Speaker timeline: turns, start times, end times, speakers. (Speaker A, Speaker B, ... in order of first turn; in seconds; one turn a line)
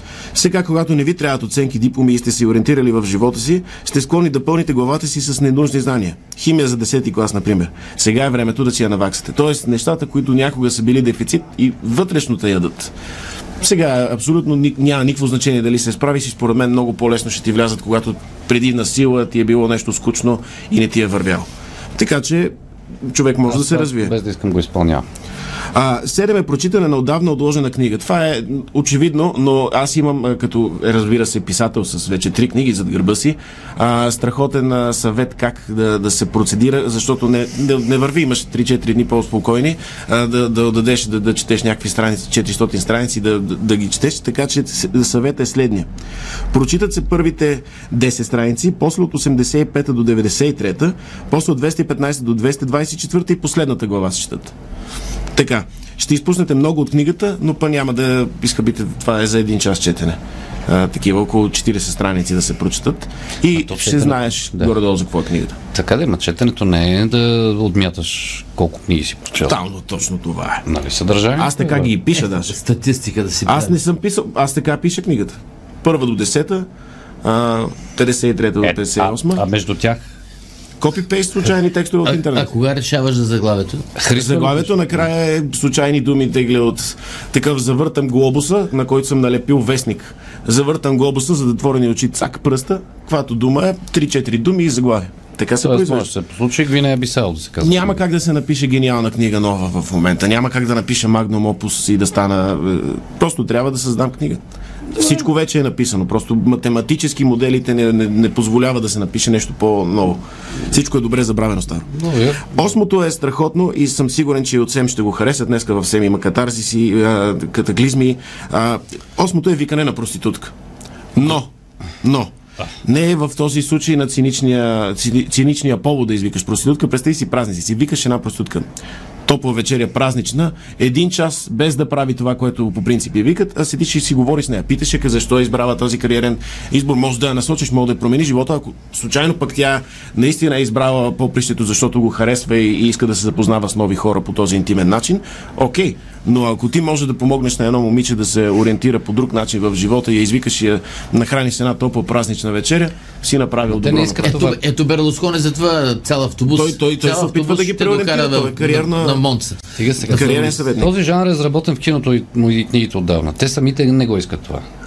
Speaker A: 0.3-12.9
Speaker A: 13.6-22.5
Speaker A: 23.1-24.1
Speaker B: 23.5-25.0
Speaker A: 25.7-45.9
Speaker A: 46.5-54.5
Speaker A: 55.4-65.6
Speaker B: 63.5-64.7
Speaker B: 65.7-69.6
Speaker A: 69.3-70.7
Speaker B: 70.7-71.9
Speaker A: 71.4-72.5
Speaker C: 72.2-73.8
Speaker A: 73.5-76.7
Speaker A: 77.2-79.4
Speaker B: 78.6-80.0
Speaker A: 80.8-82.5
Speaker C: 82.0-83.9
Speaker B: 84.0-85.0
Speaker A: 84.1-96.1
Speaker B: 95.6-98.0
Speaker A: 97.6-104.4
Speaker A: 104.9-111.9
Speaker B: 111.9-112.5
Speaker A: 112.5-120.5
Speaker A: 121.2-121.5
Speaker A: 122.0-122.3
Speaker A: 122.8-128.7
Speaker A: 129.3-154.4
Speaker B: 153.7-154.6
Speaker C: 154.2-159.6
Speaker A: 156.5-159.2
Speaker B: 159.8-164.6
Speaker A: 160.1-160.9
Speaker C: 160.1-160.4